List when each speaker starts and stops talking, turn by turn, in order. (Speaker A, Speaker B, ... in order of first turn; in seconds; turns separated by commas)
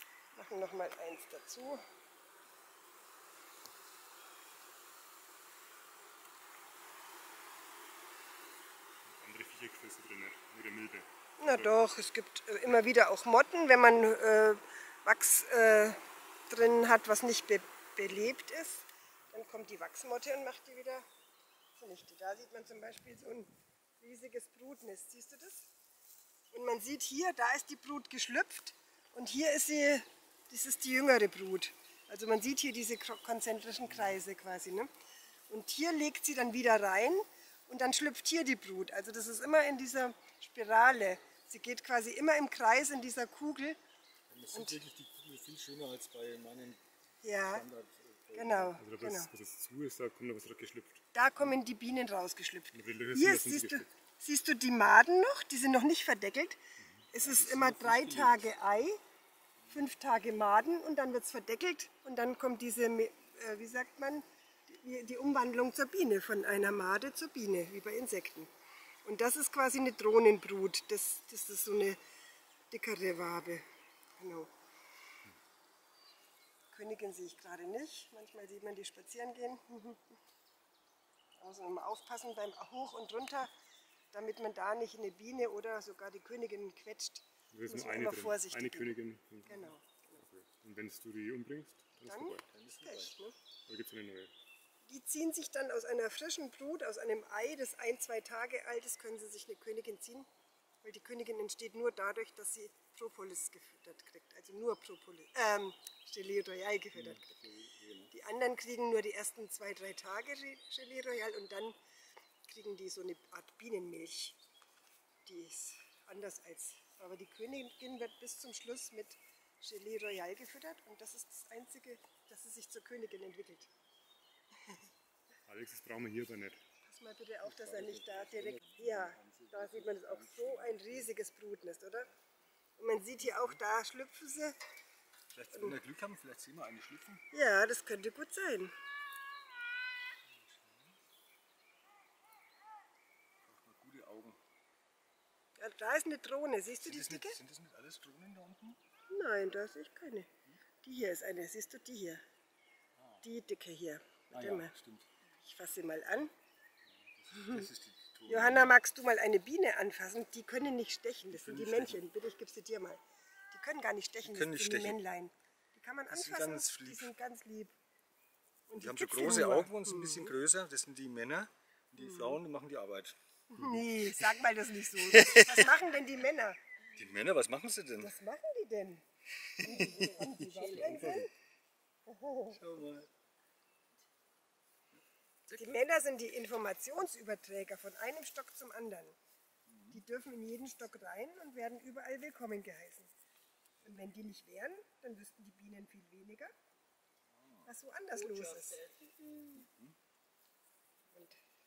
Speaker A: 0.3-1.8, Speaker B: 9.1-11.7, Speaker A: 11.4-21.0, Speaker A: 21.8-25.7, Speaker A: 26.5-34.9, Speaker A: 35.5-43.8, Speaker C: 44.3-46.8, Speaker A: 44.5-44.8, Speaker A: 47.2-47.7, Speaker C: 47.5-48.8, Speaker A: 48.3-49.3, Speaker B: 48.8-51.0, Speaker A: 51.1-56.6, Speaker B: 52.7-53.9, Speaker B: 56.8-57.1, Speaker A: 57.1-59.0, Speaker C: 57.2-58.5, Speaker A: 59.7-68.5, Speaker A: 69.0-72.0, Speaker A: 72.7-73.6, Speaker A: 74.2-74.5, Speaker A: 76.7-80.0, Speaker A: 81.4-83.5, Speaker A: 84.1-89.0, Speaker B: 87.5-92.5, Speaker A: 89.5-90.2, Speaker A: 92.1-93.4, Speaker C: 92.5-93.1, Speaker B: 93.7-94.3, Speaker A: 94.9-100.3, Speaker A: 100.8-107.3, Speaker C: 107.0-108.1, Speaker A: 108.1-111.8, Speaker A: 112.5-114.4, Speaker A: 115.2-123.7, Speaker B: 125.5-126.6, Speaker A: 126.8-132.1, Speaker C: 127.6-131.0, Speaker A: 132.8-134.6, Speaker C: 135.3-137.2, Speaker A: 137.3-138.7, Speaker C: 140.4-141.0, Speaker C: 143.4-144.4, Speaker A: 145.6-147.4, Speaker C: 146.8-148.8, Speaker A: 149.1-150.3, Speaker A: 150.8-152.2, Speaker A: 153.2-154.7, Speaker C: 154.3-155.1, Speaker A: 155.4-156.3, Speaker C: 157.1-158.8, Speaker A: 157.3-157.7, Speaker A: 158.3-167.8, Speaker C: 161.3-162.0, Speaker C: 164.2-165.0, Speaker C: 166.1-167.1, Speaker A: 168.7-170.3, Speaker C: 168.8-174.0, Speaker A: 172.0-172.4, Speaker A: 173.5-176.6, Speaker C: 175.0-175.7, Speaker C: 176.9-178.1, Speaker A: 178.0-179.0, Speaker C: 179.5-181.2, Speaker A: 179.6-181.3, Speaker A: 182.1-182.7, Speaker C: 182.5-183.1, Speaker A: 185.5-189.2, Speaker C: 189.7-190.0, Speaker A: 189.9-193.1, Speaker A: 193.8-196.5, Speaker C: 197.3-197.7, Speaker A: 197.7-198.9, Speaker C: 199.3-199.9, Speaker A: 201.1-201.4